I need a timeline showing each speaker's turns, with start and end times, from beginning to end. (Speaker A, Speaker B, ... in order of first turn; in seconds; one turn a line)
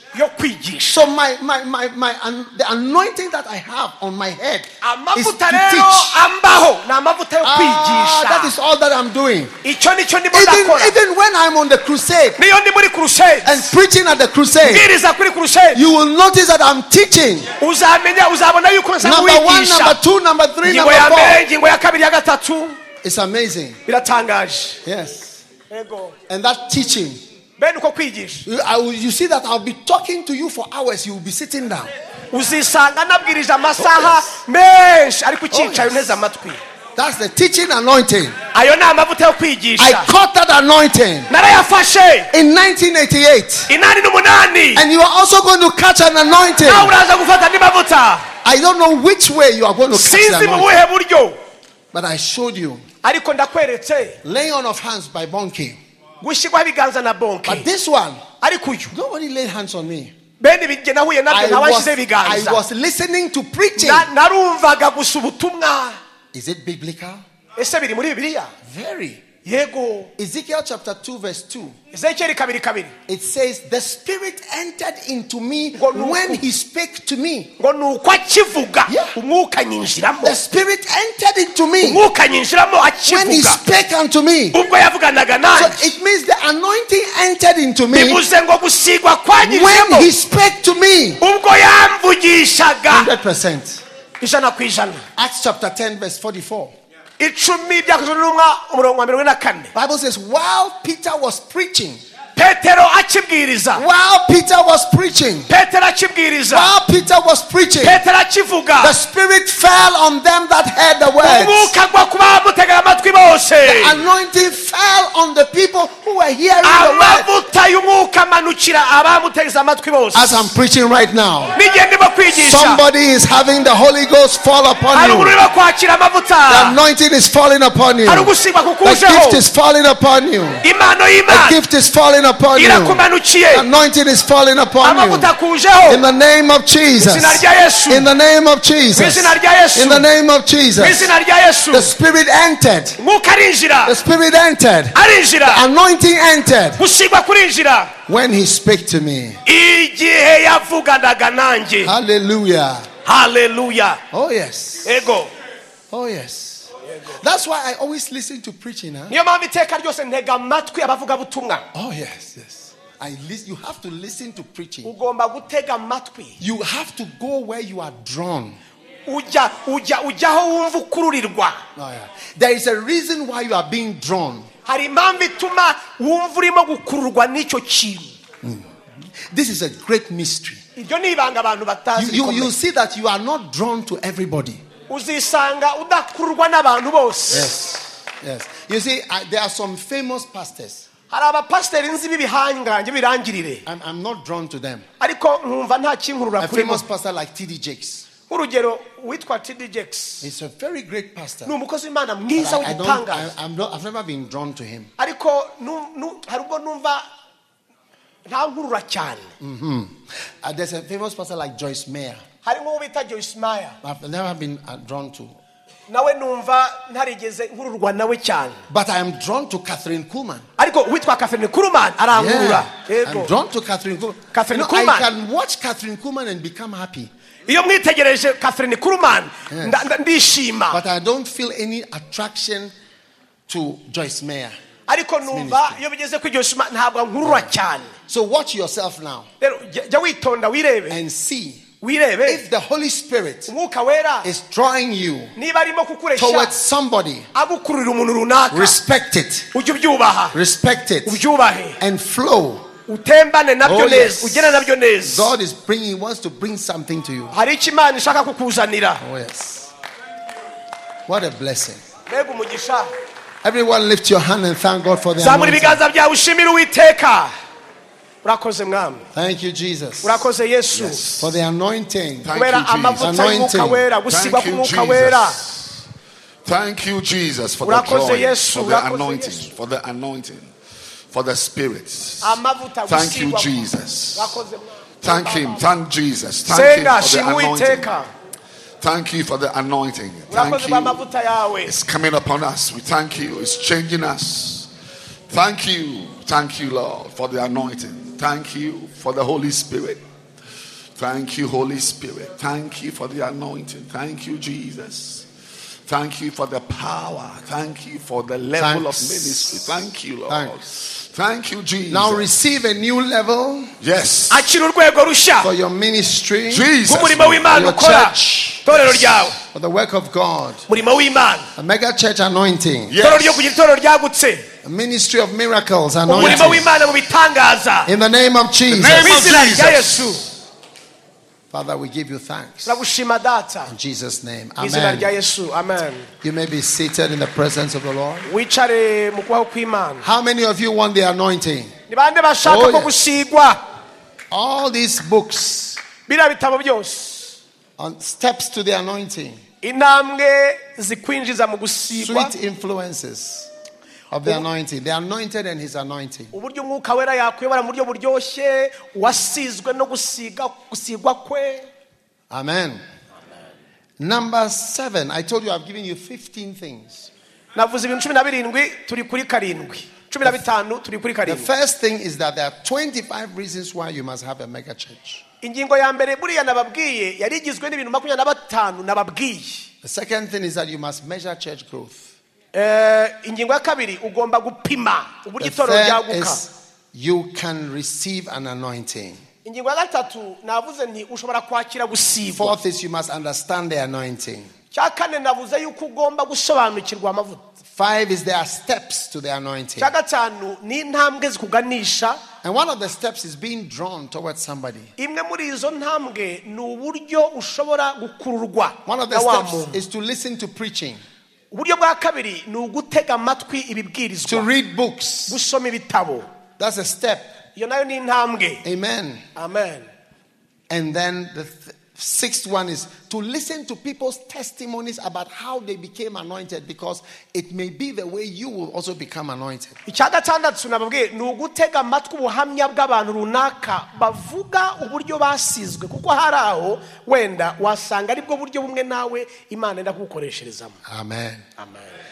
Speaker A: 0.1-1.1
Speaker B: 0.8-6.2
Speaker A: 4.8-8.6
Speaker B: 7.4-9.6
Speaker A: 9.6-11.0
Speaker B: 10.3-12.4
Speaker A: 12.4-13.8
Speaker B: 13.4-14.9
Speaker A: 14.6-15.8
Speaker B: 15.7-17.5
Speaker A: 17.6-20.0
Speaker B: 19.0-21.4
Speaker A: 20.6-22.8
Speaker B: 23.0-23.8
Speaker A: 23.9-24.8
Speaker B: 24.8-25.5
Speaker A: 25.7-26.2
Speaker B: 26.3-27.2
Speaker A: 27.6-28.5
Speaker B: 28.4-31.9
Speaker A: 32.3-36.6
Speaker B: 33.8-34.4
Speaker B: 35.5-36.2
Speaker B: 37.0-38.4
Speaker A: 38.5-40.1
Speaker B: 39.8-41.3
Speaker A: 41.3-42.3
Speaker B: 42.3-43.7
Speaker A: 43.7-44.9
Speaker B: 44.8-46.9
Speaker A: 46.6-48.3
Speaker B: 48.4-50.8
Speaker A: 49.9-51.4
Speaker B: 51.9-52.9
Speaker A: 53.0-54.2
Speaker B: 54.2-55.8
Speaker A: 56.2-57.7
Speaker B: 57.5-58.3
Speaker A: 58.4-58.9
Speaker B: 58.9-60.1
Speaker A: 60.4-62.6
Speaker B: 61.3-64.1
Speaker A: 63.8-66.0
Speaker B: 66.3-67.2
Speaker A: 67.6-68.5
Speaker B: 68.6-69.3
Speaker A: 69.5-70.1
Speaker B: 70.2-71.8
Speaker A: 71.9-73.0
Speaker B: 73.1-77.6
Speaker A: 75.8-76.4
Speaker A: 77.6-80.4
Speaker B: 78.9-79.2
Speaker B: 80.2-82.0
Speaker A: 81.8-83.6
Speaker B: 83.1-84.6
Speaker A: 84.5-85.9
Speaker B: 85.5-88.2
Speaker A: 87.9-90.1
Speaker B: 89.4-91.2
Speaker A: 91.2-93.1
Speaker B: 92.9-93.8
Speaker A: 94.2-95.0
Speaker B: 95.2-96.8
Speaker A: 97.2-99.7
Speaker B: 99.7-102.0
Speaker A: 102.3-103.8
Speaker B: 103.7-105.5
Speaker A: 105.5-106.7
Speaker B: 106.5-108.0
Speaker A: 107.8-109.0
Speaker B: 108.8-111.7
Speaker A: 111.2-114.0
Speaker B: 113.6-117.3
Speaker A: 116.6-120.5
Speaker B: 120.1-121.6
Speaker A: 121.5-122.8
Speaker B: 122.3-125.4
Speaker A: 124.9-126.8
Speaker B: 126.5-128.3
Speaker A: 128.1-129.4
Speaker B: 128.8-130.6
Speaker A: 130.6-131.6
Speaker B: 131.3-135.3
Speaker A: 132.6-133.7
Speaker A: 134.8-136.0
Speaker B: 135.9-141.1
Speaker A: 137.0-138.1
Speaker A: 138.9-140.1
Speaker A: 140.8-141.9
Speaker B: 141.7-143.0
Speaker A: 143.0-144.0
Speaker B: 143.8-146.8
Speaker A: 144.9-145.7
Speaker A: 146.8-147.9
Speaker B: 148.1-149.4
Speaker A: 149.5-151.9
Speaker B: 151.8-152.9
Speaker A: 153.1-154.0
Speaker B: 154.1-155.0
Speaker A: 154.8-155.3
Speaker B: 155.9-159.2
Speaker A: 156.9-157.2
Speaker A: 159.1-161.7
Speaker B: 161.7-164.9
Speaker A: 164.8-166.4
Speaker B: 166.4-168.6
Speaker A: 169.1-171.6
Speaker B: 171.8-174.5
Speaker A: 174.7-178.2
Speaker B: 178.4-180.6
Speaker A: 180.8-182.6
Speaker B: 182.0-184.7
Speaker A: 184.9-187.6
Speaker B: 187.3-190.9
Speaker A: 191.1-193.7
Speaker B: 193.7-194.9
Speaker A: 195.0-196.9
Speaker B: 196.4-198.1
Speaker A: 198.3-200.3
Speaker B: 200.2-201.6
Speaker A: 201.5-203.3
Speaker B: 202.3-204.9
Speaker A: 205.0-207.1
Speaker A: 208.2-209.3
Speaker B: 209.4-212.2
Speaker A: 212.4-213.8
Speaker B: 213.8-215.4
Speaker A: 215.9-218.6
Speaker B: 218.7-220.5
Speaker A: 220.6-223.3
Speaker B: 222.1-227.1
Speaker A: 224.3-225.1
Speaker A: 227.5-230.8
Speaker B: 229.5-229.9
Speaker B: 230.7-232.7
Speaker B: 233.5-234.6
Speaker A: 234.9-237.9
Speaker B: 235.3-235.8
Speaker B: 237.2-237.5
Speaker B: 238.1-239.3
Speaker A: 239.4-241.0
Speaker B: 240.9-241.7
Speaker A: 241.8-242.4
Speaker B: 242.3-243.5
Speaker A: 243.5-244.3
Speaker B: 244.2-245.4
Speaker A: 245.4-246.5
Speaker B: 246.2-247.3
Speaker A: 247.3-248.8
Speaker B: 248.5-249.5
Speaker A: 249.5-250.4
Speaker B: 250.3-251.2
Speaker A: 251.1-251.8
Speaker B: 251.8-252.7
Speaker A: 252.9-255.3
Speaker B: 253.6-257.3
Speaker A: 257.3-259.0
Speaker B: 259.0-259.7
Speaker B: 261.1-261.8
Speaker A: 262.1-262.9
Speaker B: 263.4-265.8
Speaker A: 265.2-267.3
Speaker A: 268.2-269.1
Speaker B: 269.1-270.3
Speaker A: 270.0-271.2
Speaker C: 270.7-271.3
Speaker B: 271.2-272.3
Speaker C: 272.2-273.2
Speaker A: 272.3-275.4
Speaker B: 273.0-273.9
Speaker C: 274.1-275.9
Speaker C: 276.4-280.6
Speaker A: 277.6-279.6
Speaker C: 281.1-284.4
Speaker A: 282.2-285.7
Speaker C: 285.0-287.9
Speaker A: 286.5-288.1
Speaker C: 288.8-291.1
Speaker A: 290.3-291.8
Speaker C: 291.6-294.7
Speaker C: 295.3-300.0
Speaker C: 301.0-305.3
Speaker C: 305.9-312.3
Speaker B: 308.6-309.7
Speaker B: 310.3-310.6
Speaker B: 311.9-313.7
Speaker C: 313.8-314.4
Speaker A: 314.3-315.5
Speaker B: 315.4-316.7
Speaker C: 316.5-317.6
Speaker A: 316.8-319.4
Speaker B: 317.5-318.8
Speaker B: 319.4-320.7
Speaker A: 320.7-321.5
Speaker B: 321.5-323.0
Speaker C: 322.9-323.6
Speaker A: 323.0-324.5
Speaker B: 324.6-326.7
Speaker A: 326.1-327.9
Speaker C: 326.2-326.6
Speaker B: 327.9-329.4
Speaker C: 328.7-330.3
Speaker A: 328.8-330.3
Speaker B: 331.5-332.8
Speaker A: 332.6-333.7
Speaker B: 333.7-335.1
Speaker A: 334.6-336.1
Speaker B: 336.2-338.3
Speaker A: 338.2-340.1
Speaker B: 340.0-341.8
Speaker A: 341.9-343.6
Speaker B: 342.4-342.9
Speaker B: 344.3-345.8
Speaker A: 346.1-347.4
Speaker B: 347.8-349.4
Speaker A: 349.6-352.3
Speaker B: 351.9-353.5
Speaker B: 354.1-356.3
Speaker A: 356.3-361.7
Speaker B: 362.3-362.8
Speaker B: 364.0-367.1
Speaker A: 367.6-371.5
Speaker B: 371.2-375.2
Speaker A: 375.4-379.7
Speaker B: 379.8-382.1
Speaker A: 382.5-386.4
Speaker B: 385.4-389.2
Speaker A: 389.4-392.6
Speaker B: 392.3-394.5
Speaker A: 394.7-397.4
Speaker B: 397.6-399.9
Speaker A: 399.8-402.2
Speaker B: 402.4-404.9
Speaker A: 405.0-409.8
Speaker B: 408.9-411.0
Speaker A: 411.5-414.5
Speaker B: 414.3-415.4
Speaker A: 415.3-416.3
Speaker B: 416.6-417.3
Speaker A: 417.6-418.6
Speaker B: 418.6-419.3
Speaker A: 419.4-419.9
Speaker B: 420.7-429.8
Speaker A: 429.9-440.8
Speaker B: 440.9-441.5